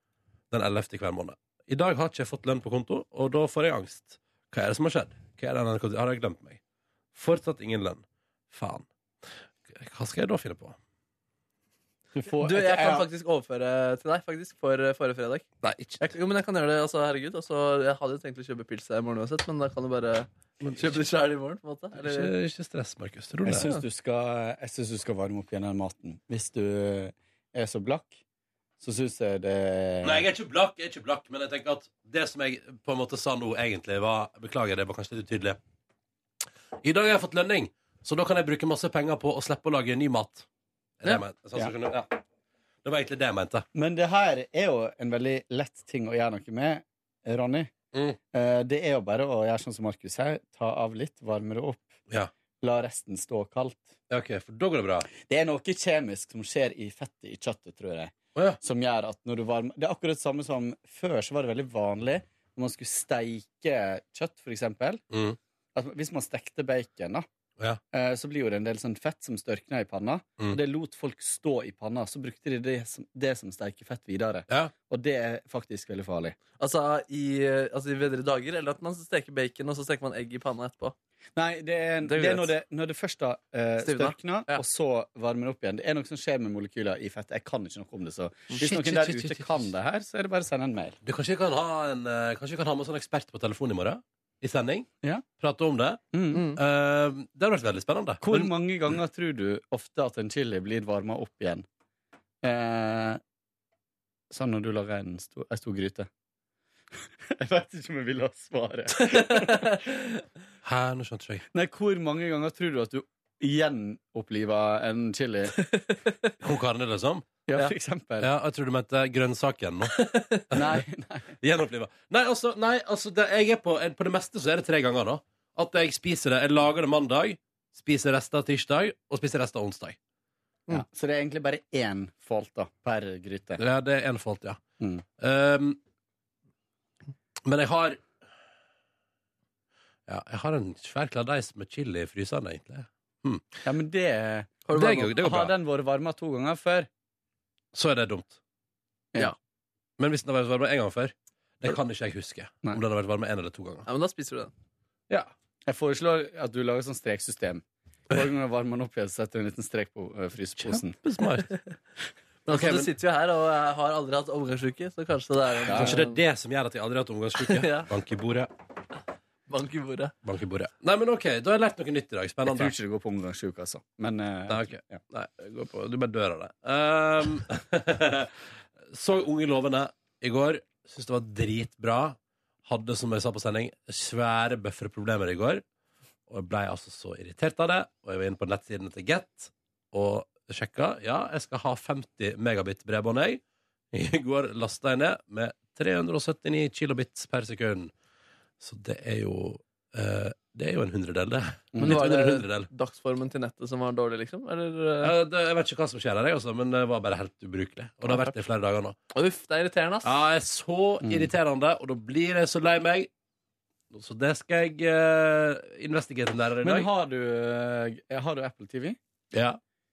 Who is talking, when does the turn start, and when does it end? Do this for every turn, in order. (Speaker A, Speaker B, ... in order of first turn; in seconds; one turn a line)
Speaker A: 0.5-6.6
Speaker A: 7.1-8.9
Speaker A: 9.7-10.8
Speaker B: 12.2-13.1
Speaker C: 12.4-15.5
Speaker A: 15.6-16.0
Speaker C: 16.0-22.3
Speaker A: 20.6-21.0
Speaker A: 22.0-23.7
Speaker B: 23.4-28.2
Speaker B: 28.8-30.3
Speaker A: 30.0-35.6
Speaker A: 36.8-40.5
Speaker A: 41.0-42.2
Speaker B: 41.1-41.7
Speaker A: 42.8-43.7
Speaker B: 43.8-47.7
Speaker B: 48.3-51.9
Speaker B: 52.6-54.0
Speaker A: 54.1-55.1
Speaker B: 55.2-65.0
Speaker A: 65.1-65.4
Speaker B: 65.8-67.3
Speaker B: 67.9-76.4
Speaker C: 76.6-81.0
Speaker B: 81.4-91.0
Speaker C: 82.0-82.5
Speaker C: 83.8-84.6
Speaker A: 88.6-89.7
Speaker A: 91.0-94.9
Speaker A: 95.4-96.0
Speaker B: 96.1-96.5
Speaker C: 96.3-96.6
Speaker A: 96.5-98.5
Speaker B: 98.2-101.7
Speaker B: 102.4-103.2
Speaker B: 104.3-106.1
Speaker B: 107.3-109.8
Speaker C: 109.0-110.2
Speaker A: 110.6-111.5
Speaker B: 111.5-115.6
Speaker C: 115.6-116.3
Speaker A: 116.4-117.3
Speaker B: 117.5-118.3
Speaker A: 118.2-120.0
Speaker C: 120.0-120.5
Speaker A: 120.5-120.8
Speaker B: 120.5-121.3
Speaker A: 121.4-130.0
Speaker B: 130.7-133.6
Speaker A: 133.6-134.6
Speaker B: 134.8-135.1
Speaker A: 135.2-135.8
Speaker A: 137.4-138.0
Speaker A: 140.1-143.6
Speaker B: 143.6-144.6
Speaker C: 144.7-145.2
Speaker A: 144.7-145.5
Speaker B: 145.1-146.9
Speaker A: 147.7-148.4
Speaker A: 150.0-153.9
Speaker C: 153.9-154.5
Speaker B: 155.7-161.0
Speaker A: 160.7-161.5
Speaker C: 162.5-166.2
Speaker A: 162.5-162.9
Speaker B: 165.7-166.0
Speaker A: 165.7-168.5
Speaker C: 167.4-167.9
Speaker C: 169.5-170.1
Speaker A: 170.2-172.7
Speaker B: 172.4-175.0
Speaker A: 174.5-185.6
Speaker A: 186.3-197.9
Speaker A: 198.6-202.7
Speaker B: 201.7-202.1
Speaker C: 201.8-205.1
Speaker A: 205.0-209.0
Speaker C: 209.1-210.1
Speaker A: 210.0-213.1
Speaker B: 211.0-211.3
Speaker A: 213.9-216.9
Speaker B: 216.6-219.0
Speaker A: 219.3-219.6